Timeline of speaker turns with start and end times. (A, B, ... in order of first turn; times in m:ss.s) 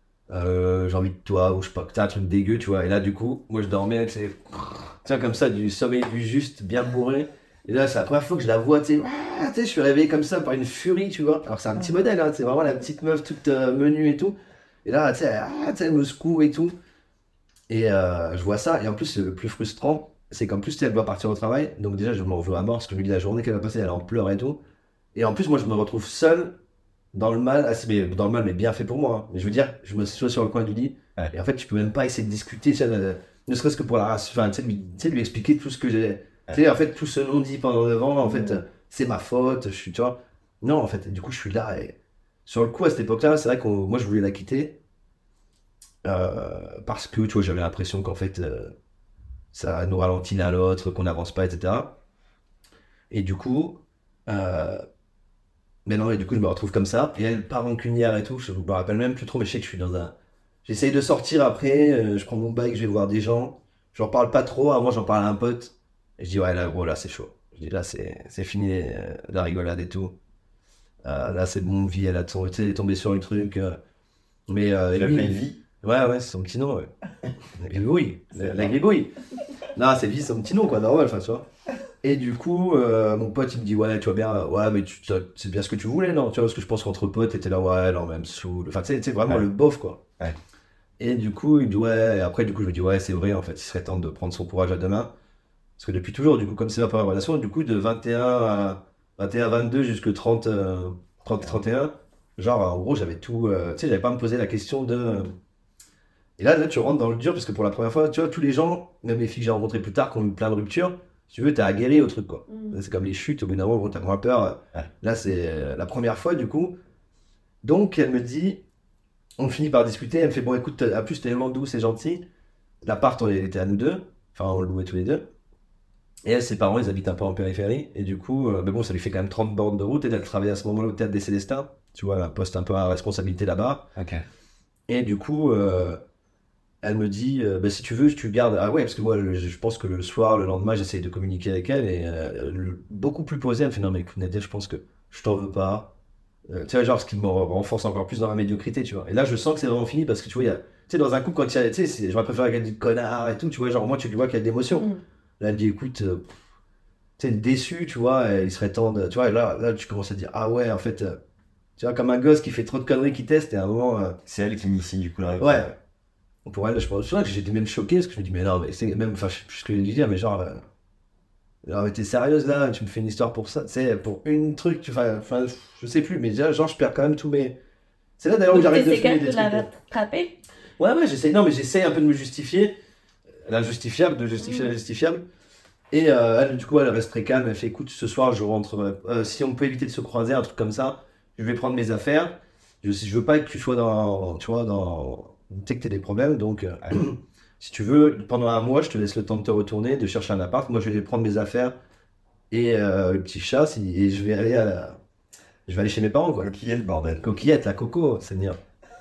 0:00.3-0:16.7 A
0:17.7-0:24.6 A
0:25.1-0:26.6 A
0:27.1-0:44.8 A
0:38.2-0:38.6 B
0:46.0-0:48.8 A
0:49.5-0:52.0 A
0:53.1-0:54.8 A
0:55.8-1:10.2 A
1:11.0-1:13.8 A
1:14.5-1:16.9 A
1:14.9-1:15.6 C
1:17.6-1:19.1 A
1:18.4-1:18.7 C
1:19.7-1:21.4 A
1:22.0-1:30.0 A
1:31.0-1:35.1 A
1:35.8-1:45.3 A
1:46.4-1:56.8 A
1:57.6-1:58.6 A
1:59.4-2:02.2 A
2:02.8-2:05.3 A
2:06.2-2:13.9 A
2:14.0-2:14.2 C
2:14.9-2:16.0 A
2:16.8-2:25.9 A
2:26.5-2:36.3 A
2:37.2-2:41.2 A
2:41.8-2:44.2 A
2:44.3-2:45.7 C
2:45.4-2:45.7 A
2:46.4-2:50.6 A
2:51.6-2:57.6 A
2:58.2-2:59.7 A
2:58.5-3:00.4 B
3:00.8-3:02.8 A
3:03.4-3:05.2 A
3:05.9-3:21.7 A
3:22.5-3:25.0 A
3:25.7-3:26.5 A
3:26.4-3:27.3 C
3:27.2-3:28.6 A